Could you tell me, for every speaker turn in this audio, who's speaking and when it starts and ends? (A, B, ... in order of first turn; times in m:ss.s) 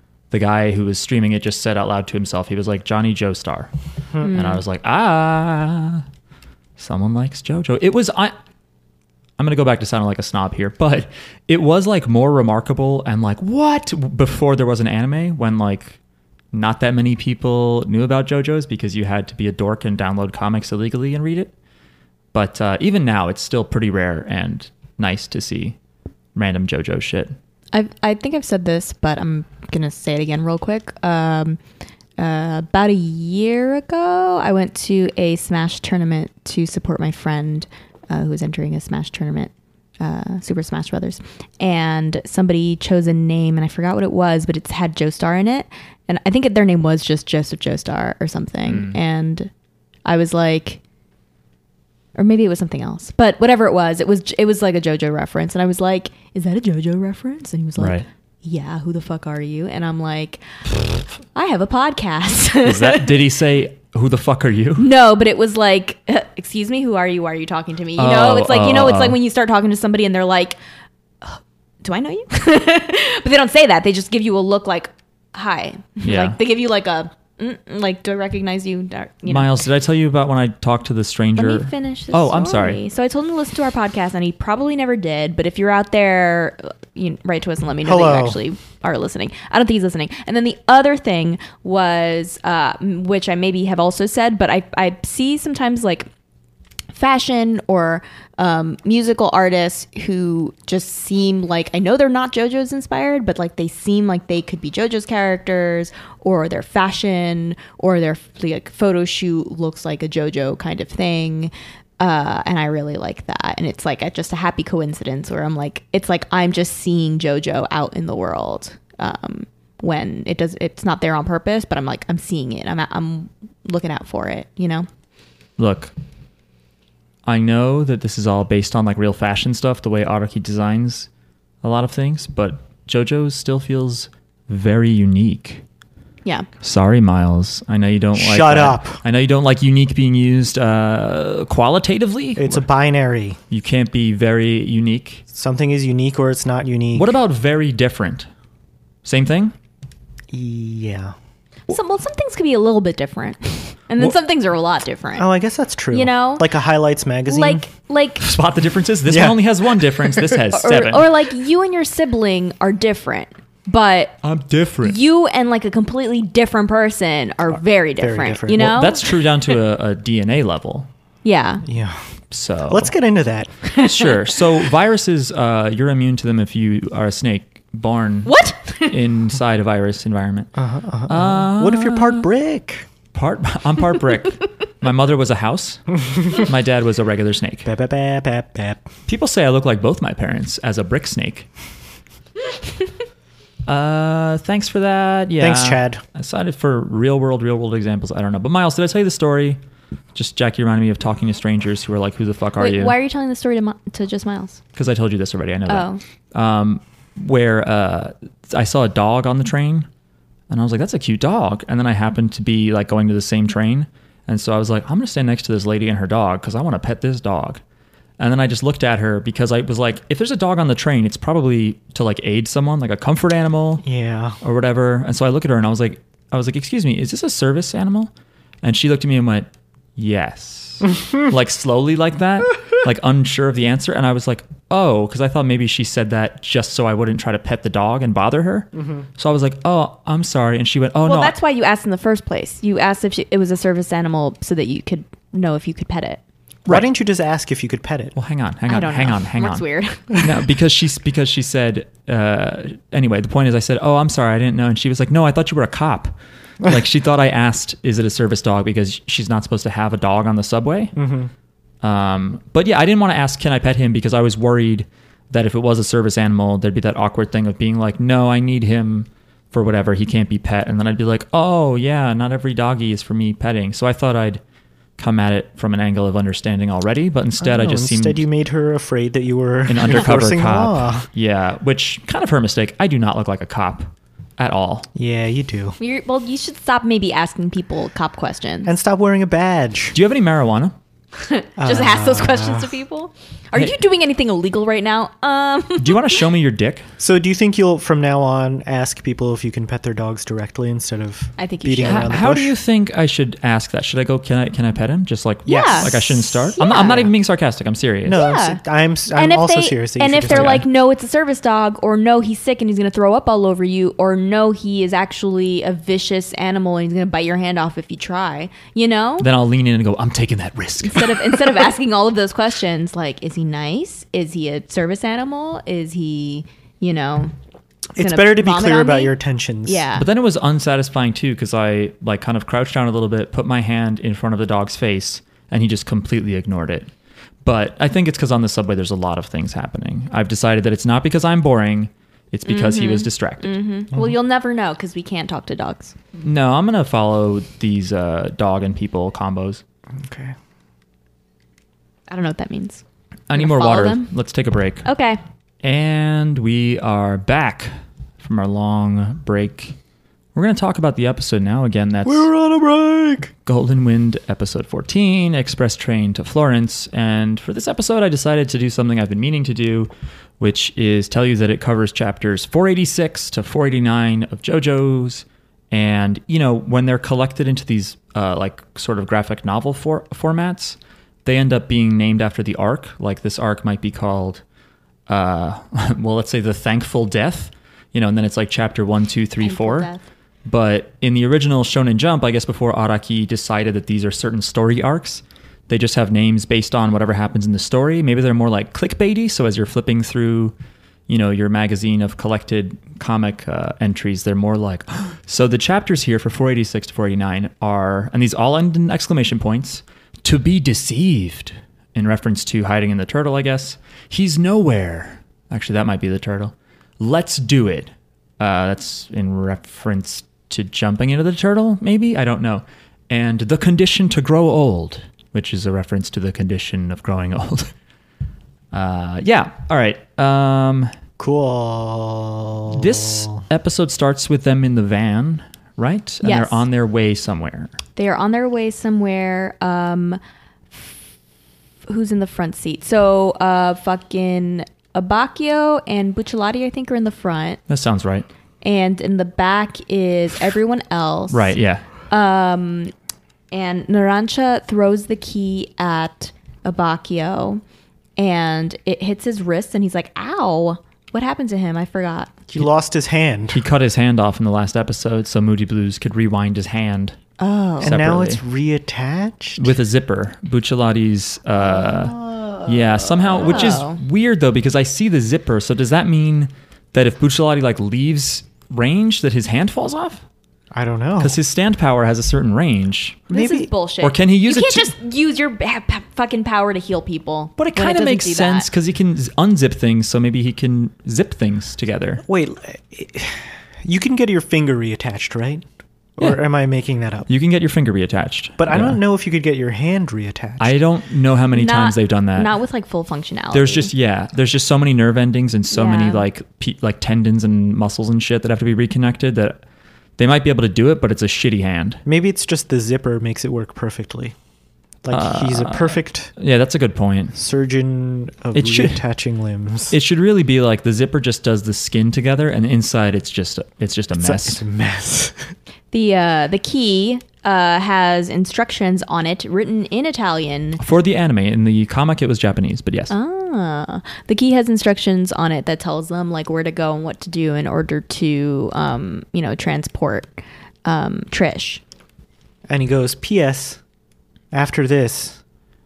0:00.3-0:03.7 A
0:04.2-0:04.6 B
0:04.2-0:06.0 A
0:06.8-0:08.3 A
0:09.4-0:16.0 A
0:16.5-0:21.5 A
0:22.3-0:25.8 A
0:26.3-0:27.3 A
0:27.7-0:31.6 B
0:32.2-0:49.5 B
0:48.6-0:49.0 A
0:50.0-0:50.8 B
0:52.2-1:00.4 B
0:57.8-0:58.1 A
1:01.3-1:03.2 B
1:02.6-1:04.9 A
1:04.8-1:10.6 B
1:08.0-1:09.2 A
1:11.2-1:19.5 B
1:16.0-1:16.4 A
1:19.3-1:22.8 A
1:21.4-1:36.1 B
1:27.8-1:28.4 C
1:36.9-2:04.9 B
2:05.6-2:05.9 A
2:07.2-2:11.1 A
2:11.6-2:15.6 A
2:16.6-2:22.6 A
2:18.2-2:19.0 C
2:22.4-2:23.4 C
2:23.5-2:25.2 A
2:25.3-2:27.1 C
2:26.9-2:28.3 A
2:29.0-2:29.5 A
2:30.3-2:31.1 C
2:31.7-2:35.3 B
2:35.2-2:37.7 C
2:35.9-2:36.5 B
2:37.3-2:38.2 B
2:38.2-2:41.1 A
2:39.1-2:40.3 C
2:40.5-2:44.2 B
2:44.2-2:45.0 A
2:44.8-2:49.1 B
2:48.0-2:48.8 C
2:48.5-2:50.9 A
2:51.2-2:51.6 B
2:51.6-2:52.1 C
2:52.3-2:52.9 A
2:52.7-2:53.5 C
2:53.6-2:54.1 B
2:53.7-3:00.5 A
2:58.2-2:59.0 B
3:00.5-3:02.9 C
3:01.1-3:02.2 A
3:03.1-3:07.7 A
3:07.6-3:08.8 C
3:09.1-3:11.5 A
3:13.6-3:19.6 A
3:15.4-3:16.0 C
3:20.1-3:22.9 A
3:22.6-3:24.6 B
3:24.7-3:29.9 A
3:25.7-3:26.0 B
3:30.5-3:37.6 A
3:38.2-3:43.8 A
3:43.8-3:44.4 C
3:44.4-3:48.1 A
3:48.6-4:01.3 A
3:58.8-3:59.0 C
4:01.0-4:06.2 B
4:06.7-4:08.1 C
4:08.2-4:20.9 A
4:08.7-4:10.2 B
4:21.0-4:21.3 C
4:21.8-4:34.4 A
4:35.0-4:38.2 A
4:37.4-4:41.1 C
4:39.7-4:44.9 A
4:44.9-4:45.8 C
4:45.8-4:48.7 B
4:48.6-4:50.0 C
4:49.9-4:50.7 A
4:51.2-4:56.1 B
4:51.6-4:52.7 C
4:55.8-4:56.9 A
4:57.0-5:02.5 C
5:01.4-5:02.2 B
5:01.8-5:08.2 A
5:05.4-5:07.1 B
5:05.5-5:06.1 C
5:08.0-5:10.6 C
5:08.1-5:08.6 B
5:09.1-5:19.3 B
5:10.3-5:10.7 A
5:19.2-5:21.4 A
5:20.8-5:27.3 B
5:27.9-5:29.8 C
5:28.0-5:30.0 B
5:30.0-5:36.9 A
5:37.4-5:43.6 A
5:42.5-5:45.9 B
5:46.2-5:49.6 A
5:49.9-5:50.3 C
5:52.1-5:52.8 B
5:53.3-5:54.8 A
5:53.3-5:54.1 B
5:54.8-5:55.2 B
5:55.6-5:59.8 A
6:00.3-6:02.3 A
6:02.0-6:03.3 C
6:03.4-6:24.4 A
6:25.1-6:29.9 A
6:29.4-6:30.0 B
6:30.4-6:40.5 A
6:41.1-7:07.7 A
7:08.7-7:10.9 A
7:11.2-7:13.4 C
7:12.7-7:17.7 A
7:16.2-7:16.6 B
7:18.0-7:20.2 B
7:21.8-7:27.6 B
7:27.7-7:28.3 A
7:28.6-7:31.5 B
7:31.3-7:31.9 A
7:32.1-7:32.9 B
7:33.5-7:37.6 B
7:38.2-7:42.4 B
7:42.5-7:43.6 C
7:43.5-7:47.2 A
7:47.4-7:47.9 B
7:47.8-7:48.4 A
7:47.8-7:49.7 C
7:49.6-8:00.2 A
7:51.5-7:53.8 C
7:53.4-7:54.0 B
8:00.7-8:01.4 C
8:01.2-8:03.3 A
8:03.3-8:08.7 B
8:03.3-8:03.7 C
8:04.0-8:04.9 A
8:07.6-8:12.2 A
8:12.2-8:15.6 C
8:16.2-8:17.3 C
8:17.3-8:19.0 A
8:18.6-8:20.8 C
8:20.6-8:22.5 A
8:21.5-8:23.9 B
8:23.5-8:29.6 A
8:25.7-8:26.2 B
8:30.2-8:32.0 A
8:32.0-8:34.3 C
8:35.0-8:36.3 C
8:35.1-8:37.4 A
8:37.3-8:39.9 C
8:38.5-8:39.0 A
8:39.9-8:44.6 A
8:44.2-8:45.5 C
8:45.9-8:50.8 B
8:50.8-8:53.1 A
8:53.1-9:01.8 B
9:02.7-9:03.8 C
9:04.5-9:05.4 C